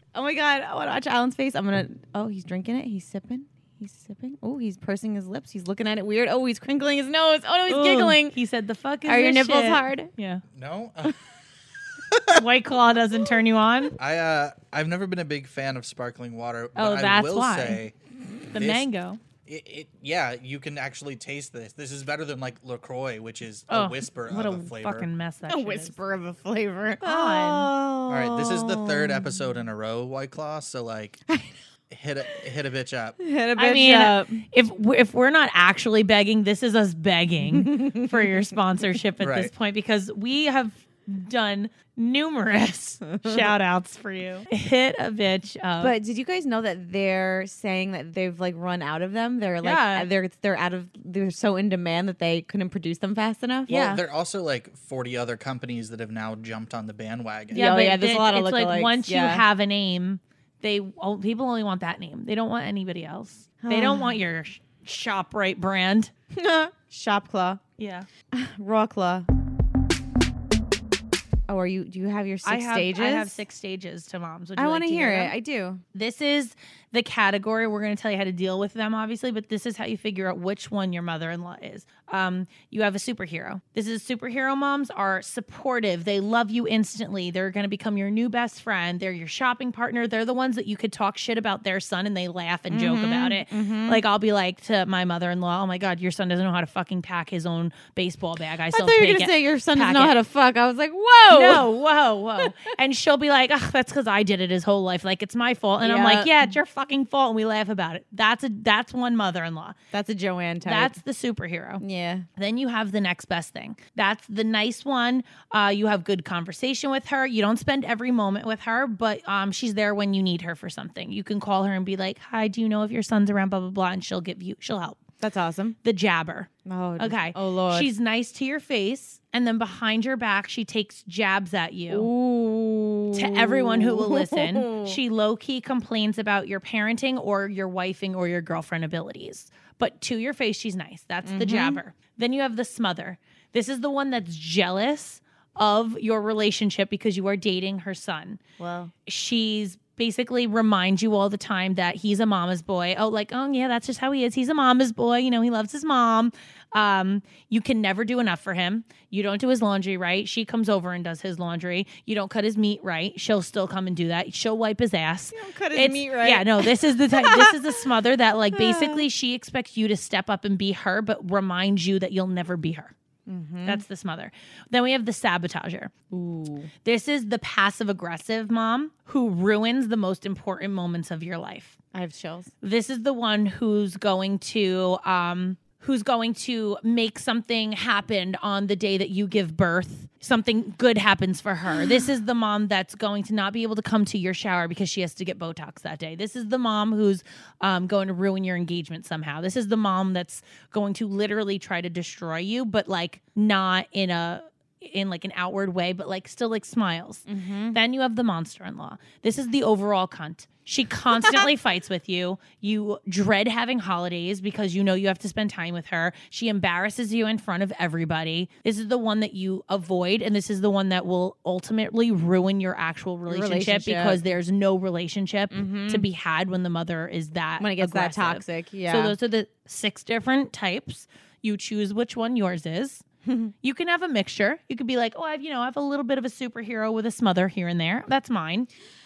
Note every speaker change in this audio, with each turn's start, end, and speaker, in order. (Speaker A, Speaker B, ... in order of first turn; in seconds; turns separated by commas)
Speaker A: 0.1-8.4, Speaker B: 7.7-10.4, Speaker A: 9.1-10.1, Speaker C: 10.5-11.2, Speaker B: 12.3-13.9, Speaker C: 14.0-17.9, Speaker B: 16.8-17.8, Speaker B: 18.5-19.2, Speaker C: 18.6-18.9, Speaker C: 19.4-25.1, Speaker B: 23.7-25.9, Speaker A: 25.5-29.5, Speaker B: 27.0-27.7, Speaker C: 28.1-31.2, Speaker C: 31.9-33.2, Speaker A: 33.2-34.5, Speaker B: 33.6-46.0, Speaker A: 37.5-38.5, Speaker C: 39.2-39.5, Speaker A: 45.8-53.7, Speaker B: 49.6-50.1, Speaker C: 53.7-57.8, Speaker B: 53.7-54.0, Speaker A: 57.5-59.5, Speaker B: 57.5-66.1, Speaker A: 63.6-64.1, Speaker A: 66.3-67.6, Speaker B: 67.8-68.1, Speaker A: 68.3-69.3, Speaker A: 71.5-73.4, Speaker B: 72.4-75.3, Speaker A: 74.6-75.8, Speaker B: 75.9-100.2, Speaker A: 92.7-94.0, Speaker A: 98.7-101.7, Speaker B: 101.3-109.8, Speaker A: 105.8-106.5, Speaker A: 109.9-111.0, Speaker B: 110.7-111.8, Speaker A: 111.8-112.3, Speaker B: 112.4-125.0, Speaker A: 125.2-125.8, Speaker B: 125.8-132.1, Speaker A: 126.7-127.9, Speaker A: 131.9-135.0, Speaker B: 133.1-148.4, Speaker A: 141.2-141.8, Speaker A: 148.6-148.9, Speaker B: 149.1-172.9, Speaker A: 165.3-167.8, Speaker A: 168.5-169.1, Speaker A: 173.3-173.8, Speaker B: 173.7-175.9, Speaker A: 176.1-176.7, Speaker B: 176.8-181.8, Speaker A: 181.9-182.5, Speaker B: 182.6-233.0, Speaker A: 191.8-192.0, Speaker A: 207.3-207.8, Speaker A: 211.2-211.5, Speaker A: 223.3-224.2, Speaker A: 225.5-226.1, Speaker A: 227.6-229.2, Speaker A: 233.2-233.5, Speaker B: 233.6-238.7